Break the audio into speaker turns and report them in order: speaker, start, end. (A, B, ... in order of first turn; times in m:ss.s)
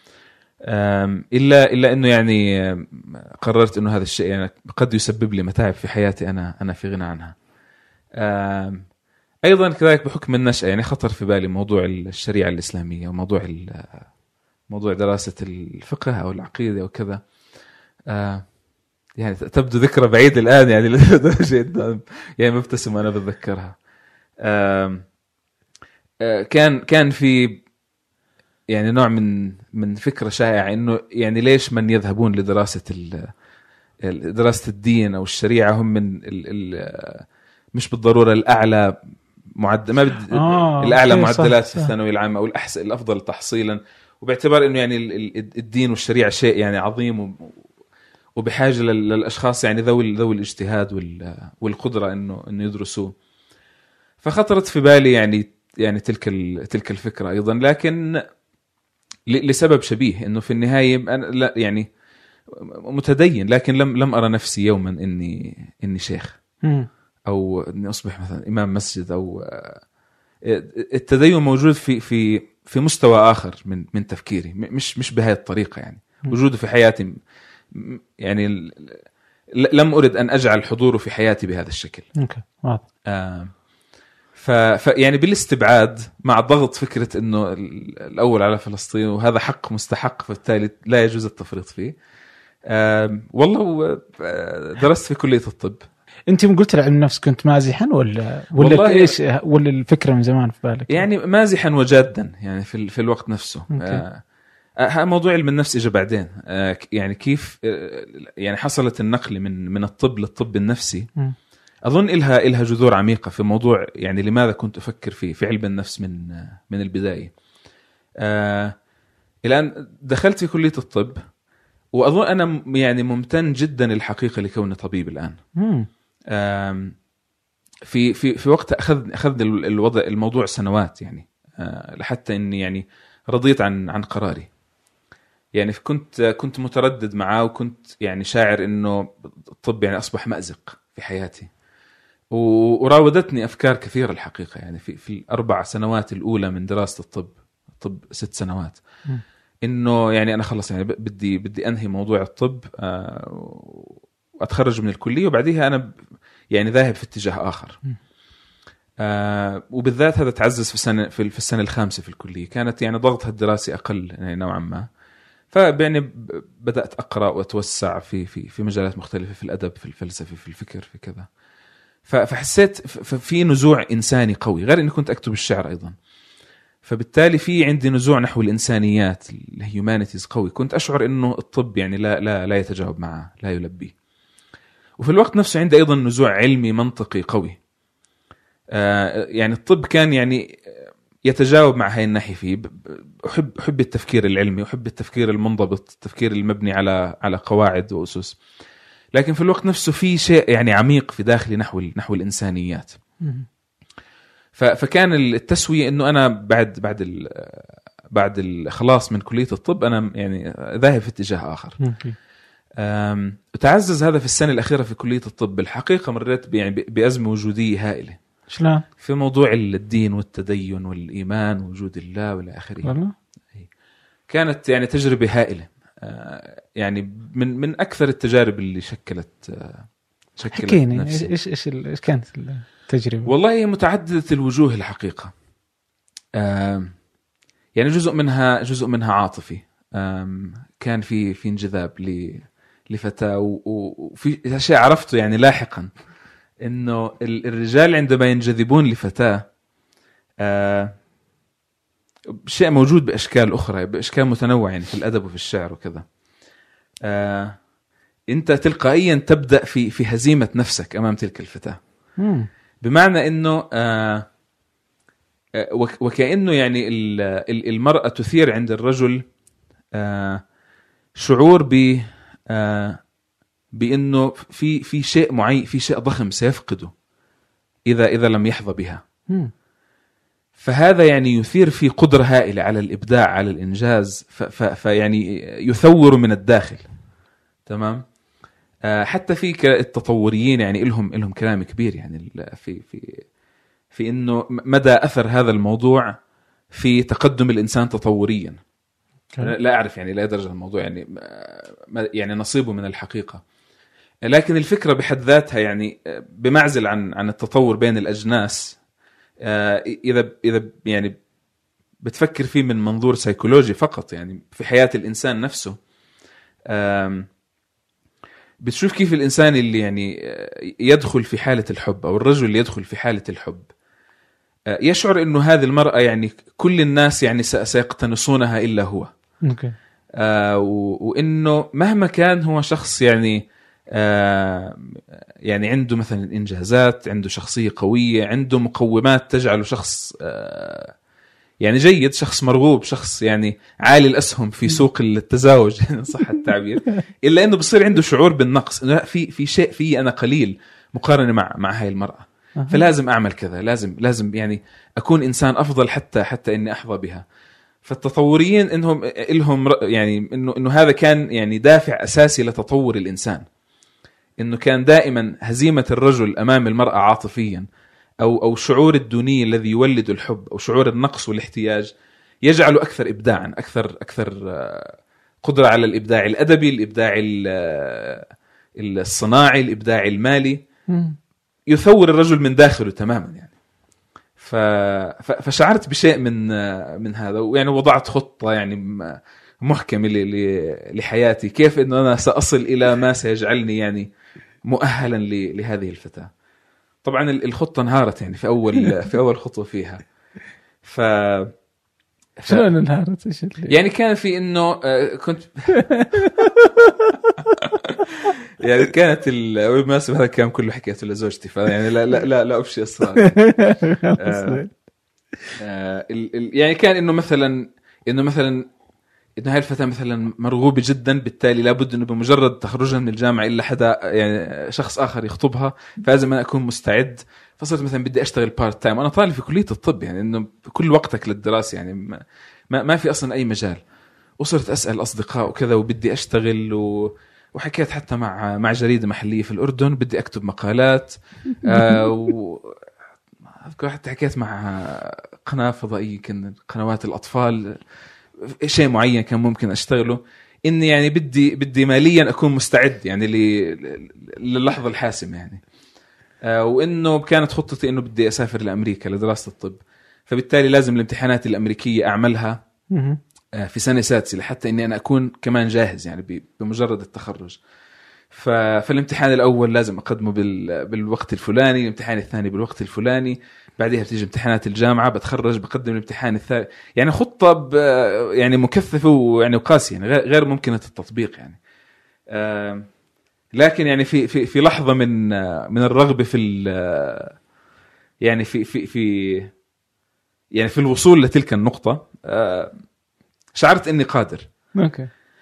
0:00.7-0:07.4 A
0:08.2-0:08.8 A
0:09.4-0:14.1 A
0:14.7-0:17.2 A
0:18.1-0:18.4 A
0:19.2-0:23.7 A
0:24.4-0:25.0 A
0:26.2-0:27.6 A
0:28.7-0:33.3 A
0:34.0-0:38.9 A
0:39.6-0:47.5 A
0:40.3-0:41.9 B
0:48.4-0:53.1 A
0:54.2-0:58.2 A
0:59.3-1:01.9 A
1:02.5-1:06.4 A
1:06.6-1:06.9 B
1:07.3-1:09.8 A
1:10.4-1:17.1 A
1:17.7-1:19.0 A
1:19.6-1:22.1 A
1:22.2-1:22.8 B
1:23.1-1:23.5 A
1:24.4-1:31.9 A
1:32.7-1:35.8 A
1:36.3-1:41.0 B
1:38.6-1:39.2 A
1:40.9-1:44.2 A
1:43.7-1:44.0 B
1:44.8-1:51.1 A
1:51.8-1:57.3 A
1:58.2-1:58.7 A
1:59.4-2:01.2 A
2:01.9-2:05.4 A
2:05.6-2:05.9 B
2:06.3-2:06.9 A
2:07.8-2:14.5 A
2:15.5-2:21.5 A
2:22.3-2:28.8 A
2:29.6-2:35.8 A
2:36.5-2:37.8 A
2:39.0-2:44.9 A
2:45.5-2:51.3 A
2:52.0-2:55.9 A
2:56.8-3:03.9 A
3:05.0-3:07.6 A
3:08.7-3:10.6 A
3:11.2-3:18.4 A
3:19.1-3:23.0 A
3:24.6-3:31.8 A
3:31.8-3:32.2 B
3:32.8-3:38.2 A
3:38.5-3:38.8 B
3:39.0-3:42.9 A
3:42.8-3:43.1 B
3:44.3-3:51.3 A
3:50.5-3:53.3 B
3:53.2-3:55.3 A
3:56.4-3:56.9 A
3:57.7-4:05.9 A
4:06.6-4:09.4 A
4:10.4-4:10.9 A
4:12.5-4:16.0 A
4:17.0-4:17.6 A
4:18.3-4:21.8 A
4:22.2-4:22.5 B
4:22.8-4:24.3 A
4:25.6-4:29.2 A
4:29.9-4:30.4 A
4:31.2-4:33.0 A
4:33.7-4:36.9 A
4:37.9-4:39.0 A
4:40.6-4:46.8 A
4:47.7-4:48.0 A
4:48.8-4:53.2 A
4:53.9-4:56.2 A
4:56.7-4:58.6 A
4:59.4-5:03.4 A
5:04.2-5:08.8 A
5:09.4-5:11.2 A
5:12.0-5:15.8 A
5:16.7-5:17.3 A
5:18.6-5:23.7 A
5:24.8-5:29.1 A
5:29.4-5:29.7 B
5:30.2-5:40.9 A
5:41.6-5:57.2 A
5:52.6-5:52.9 B
5:57.8-6:03.5 A
6:04.4-6:07.7 A
6:08.2-6:11.9 A
6:12.4-6:20.6 A
6:20.9-6:21.2 B
6:21.7-6:23.5 A
6:24.4-6:34.1 A
6:34.6-6:36.3 A
6:37.0-6:40.0 A
6:40.8-6:41.5 A
6:42.4-6:42.7 A
6:42.5-6:43.7 B
6:43.7-6:45.7 A
6:45.8-6:47.2 B
6:47.5-6:48.0 A
6:48.6-6:53.4 A
6:53.2-6:54.7 B
6:54.2-6:54.6 A
6:55.6-6:58.6 A
6:59.4-7:12.2 A
7:12.7-7:13.8 A
7:14.4-7:22.8 A
7:21.6-7:22.0 B
7:23.6-7:27.8 A
7:28.5-7:35.6 A
7:36.4-7:42.6 A
7:42.9-7:43.2 B
7:43.6-7:47.6 A
7:48.3-8:01.6 A
8:02.3-8:02.9 A
8:03.6-8:07.4 A
8:08.2-8:09.5 A
8:10.5-8:12.7 A
8:13.5-8:14.5 A
8:14.8-8:15.1 B